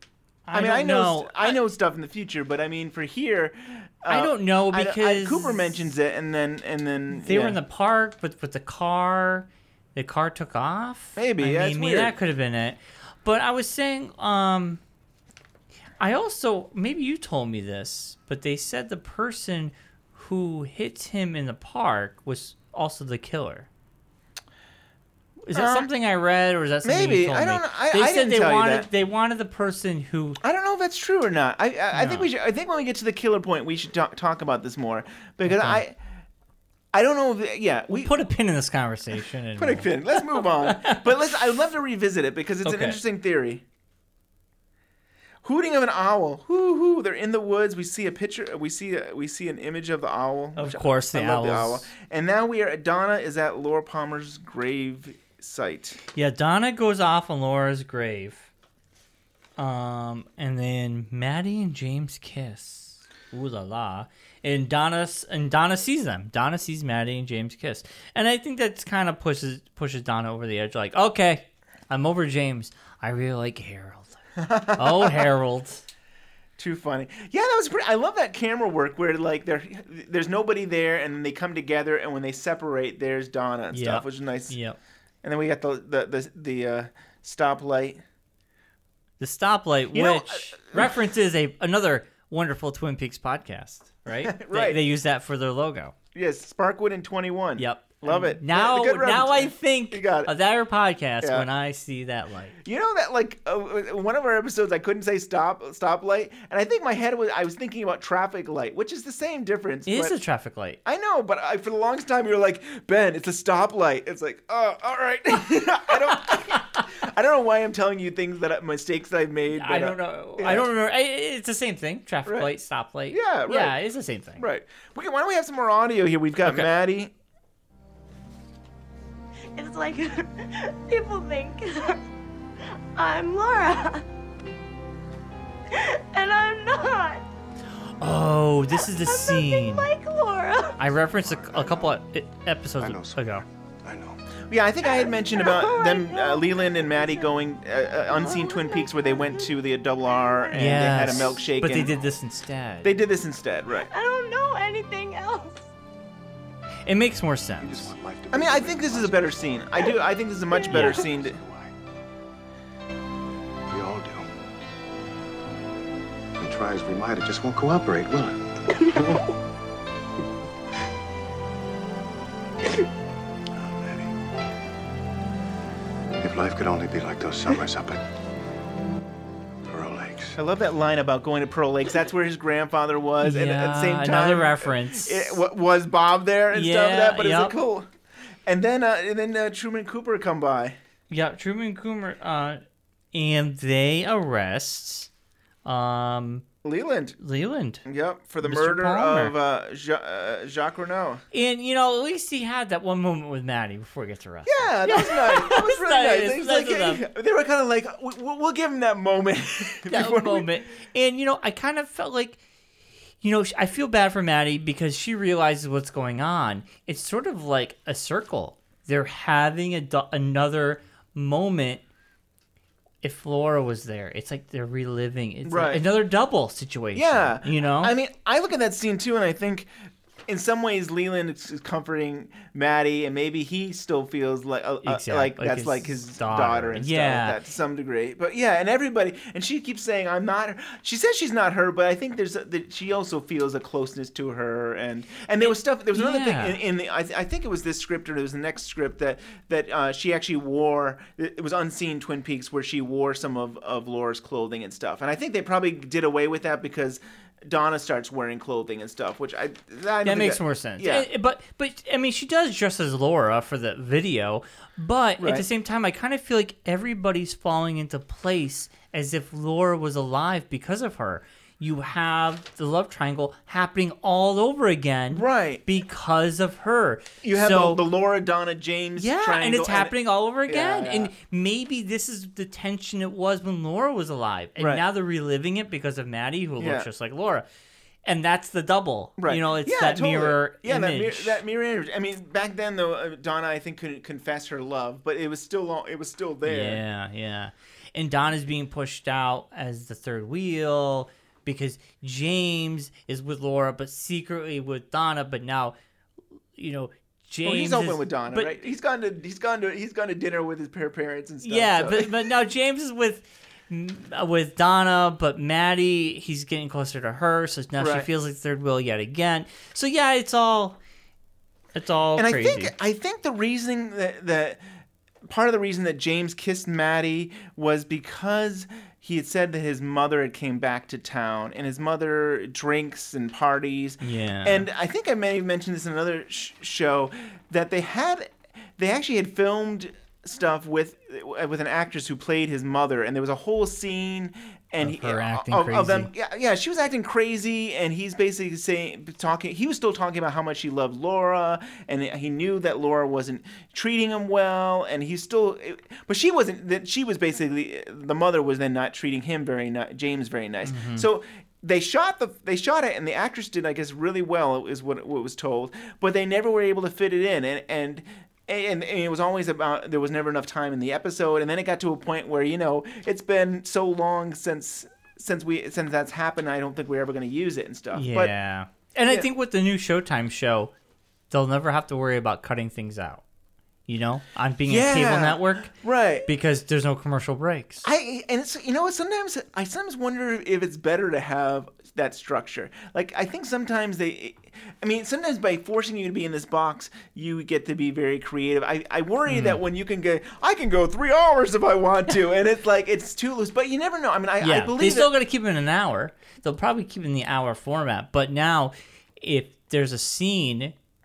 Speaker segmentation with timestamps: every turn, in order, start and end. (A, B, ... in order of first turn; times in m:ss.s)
0:00.5-0:01.6 A
0:00.5-0:07.6 B
0:04.1-0:05.8 A
0:07.1-0:14.8 A
0:11.2-0:12.1 B
0:16.0-0:23.7 A
0:25.5-0:30.4 A
0:25.5-0:25.9 B
0:26.8-0:28.9 B
0:30.4-0:36.0 B
0:31.9-0:32.3 A
0:35.5-0:35.8 A
0:36.9-0:38.2 B
0:37.9-0:41.0 A
0:39.6-0:43.6 B
0:42.6-0:43.0 A
0:45.4-0:56.0 B
0:50.6-0:51.9 A
0:56.1-0:58.5 A
0:59.6-1:14.2 A
1:14.4-1:15.3 B
1:14.8-1:15.8 A
1:16.6-1:24.6 B
1:23.7-1:24.8 A
1:25.2-1:28.0 B
1:29.2-1:35.9 A
1:29.9-1:31.0 B
1:34.2-1:34.8 B
1:36.1-1:40.3 B
1:37.6-1:42.6 A
1:41.2-1:41.5 B
1:42.6-1:50.2 B
1:49.9-1:50.8 A
1:50.8-2:00.7 B
1:59.5-2:04.5 A
2:02.3-2:02.5 B
2:03.1-2:03.8 B
2:04.4-2:07.1 B
2:09.6-2:12.0 C
2:13.0-2:14.0 C
2:15.7-2:17.2 C
2:18.0-2:19.9 A
2:18.7-2:20.8 C
2:20.8-2:23.4 A
2:21.0-2:22.0 D
2:22.8-2:24.2 D
2:24.5-2:32.0 B
2:24.8-2:27.4 C
2:28.0-2:31.8 C
2:30.5-2:32.9 A
2:32.8-2:33.9 B
2:33.8-2:35.6 C
2:36.9-2:37.9 A
2:37.6-2:39.7 D
2:38.3-2:41.4 B
2:40.5-2:41.0 C
2:40.7-2:41.8 D
2:40.7-2:41.0 A
2:43.7-2:44.3 D
2:46.4-2:49.2 D
2:53.5-2:54.1 D
2:56.2-2:58.0 D
2:59.7-3:00.4 D
3:00.4-3:07.9 B
3:03.2-3:05.4 A
3:06.5-3:07.6 A
3:08.5-3:10.8 B
3:11.1-3:12.6 A
3:13.1-3:15.1 A
3:15.6-3:16.4 A
3:16.6-3:17.2 B
3:17.2-3:17.8 A
3:17.8-3:21.2 B
3:18.4-3:19.3 A
3:21.3-3:27.0 A
3:24.5-3:30.5 B
3:29.9-3:32.4 A
3:33.2-3:41.8 A
3:43.0-3:47.9 A
3:45.5-3:45.8 B
3:46.9-3:49.7 B
3:50.3-4:21.1 B
3:54.8-3:57.4 A
4:05.4-4:06.6 A
4:20.0-4:37.8 A
4:25.2-4:25.5 B
4:35.1-4:35.6 B
4:37.2-4:40.0 B
4:39.0-4:47.5 A
4:40.5-4:41.1 B
4:44.6-4:44.8 B
4:46.6-4:46.9 B
4:48.1-4:51.4 A
4:49.2-4:56.8 B
4:56.4-5:05.8 A
5:06.6-5:08.6 A
5:07.4-5:12.2 B
5:11.4-5:20.8 A
5:17.8-5:18.1 B
5:21.8-5:22.7 A
5:22.2-5:24.6 B
5:25.3-6:18.3 B
5:34.0-5:34.7 A
5:44.8-5:46.1 A
6:00.6-6:01.1 A
6:17.9-6:20.7 A
6:21.3-6:23.2 A
6:23.9-6:27.9 A
6:24.7-6:26.3 B
6:27.8-6:45.1 B
6:39.3-6:39.6 A
6:44.4-6:50.7 A